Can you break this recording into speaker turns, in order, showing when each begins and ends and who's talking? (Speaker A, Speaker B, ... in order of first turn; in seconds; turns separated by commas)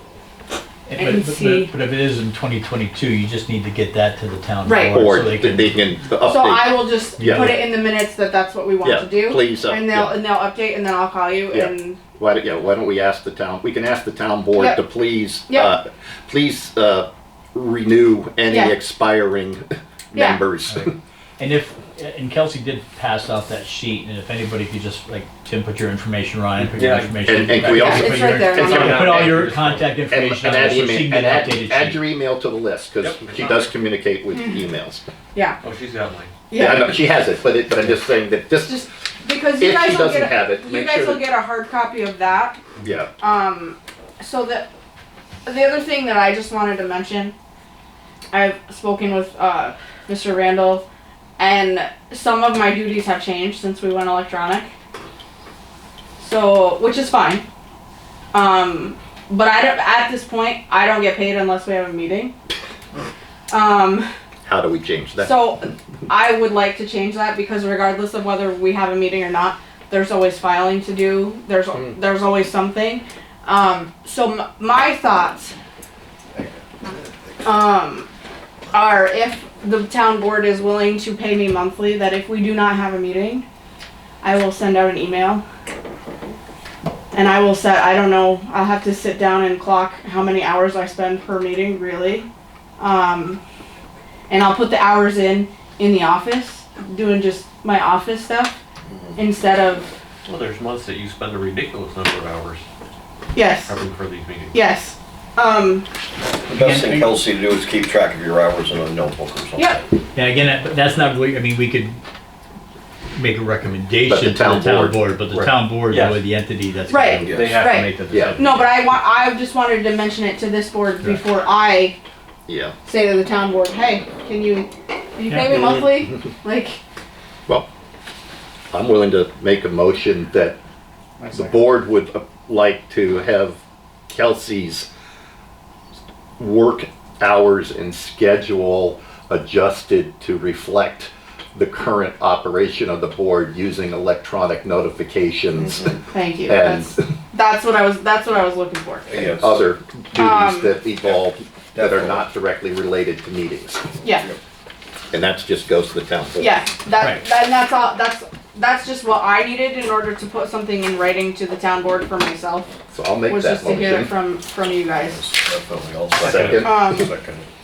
Speaker A: 0.9-5.8, Speaker B: 0.9-1.7, Speaker B: 4.6-5.0, Speaker C: 4.9-7.6, Speaker B: 6.2-12.0, Speaker A: 7.2-7.5, Speaker C: 8.8-10.2, Speaker C: 11.5-20.9, Speaker B: 14.5-14.8, Speaker B: 15.5-15.7, Speaker B: 18.5-18.8, Speaker B: 20.1-20.4, Speaker A: 20.7-32.0, Speaker D: 26.8-27.1, Speaker C: 27.2-29.3, Speaker B: 27.6-29.3, Speaker D: 28.5-29.9, Speaker C: 30.1-35.0, Speaker D: 33.0-33.3, Speaker D: 35.6-36.3, Speaker B: 36.5-36.9, Speaker C: 36.5-38.9, Speaker B: 38.6-42.6, Speaker C: 39.6-41.2, Speaker C: 42.8-43.1, Speaker B: 43.2-44.7, Speaker B: 45.5-47.3, Speaker B: 48.3-50.8, Speaker B: 51.4-54.7, Speaker B: 56.2-57.4, Speaker B: 58.3-62.3, Speaker B: 63.5-64.1, Speaker C: 64.4-65.3, Speaker B: 65.2-75.5, Speaker B: 77.4-78.1, Speaker B: 78.7-83.4, Speaker B: 84.2-85.4, Speaker B: 87.1-92.3, Speaker B: 92.8-93.4, Speaker B: 94.3-98.6, Speaker E: 98.9-99.1, Speaker B: 99.2-100.0, Speaker D: 100.2-102.6, Speaker B: 103.3-103.8, Speaker D: 103.7-104.6, Speaker B: 104.5-105.8, Speaker E: 106.5-109.7, Speaker A: 106.5-107.2, Speaker B: 109.5-109.8, Speaker A: 110.1-112.0, Speaker A: 113.1-117.6, Speaker C: 114.0-115.5, Speaker D: 115.9-116.2, Speaker B: 116.9-122.0, Speaker E: 117.2-117.7, Speaker D: 117.3-118.5, Speaker C: 118.1-118.4, Speaker C: 122.5-122.7, Speaker B: 122.8-126.8, Speaker E: 125.5-125.8, Speaker C: 128.7-130.6, Speaker C: 131.3-134.9, Speaker C: 136.4-147.1, Speaker E: 145.6-146.0, Speaker B: 146.1-149.3, Speaker E: 149.1-149.7, Speaker C: 149.3-154.0, Speaker B: 150.1-150.8, Speaker E: 151.0-152.2, Speaker B: 154.0-154.3, Speaker C: 155.1-156.5, Speaker B: 156.4-162.7, Speaker C: 162.9-164.1, Speaker B: 163.2-165.3, Speaker E: 165.2-167.4, Speaker C: 166.2-167.1, Speaker D: 166.2-166.6, Speaker B: 166.6-167.1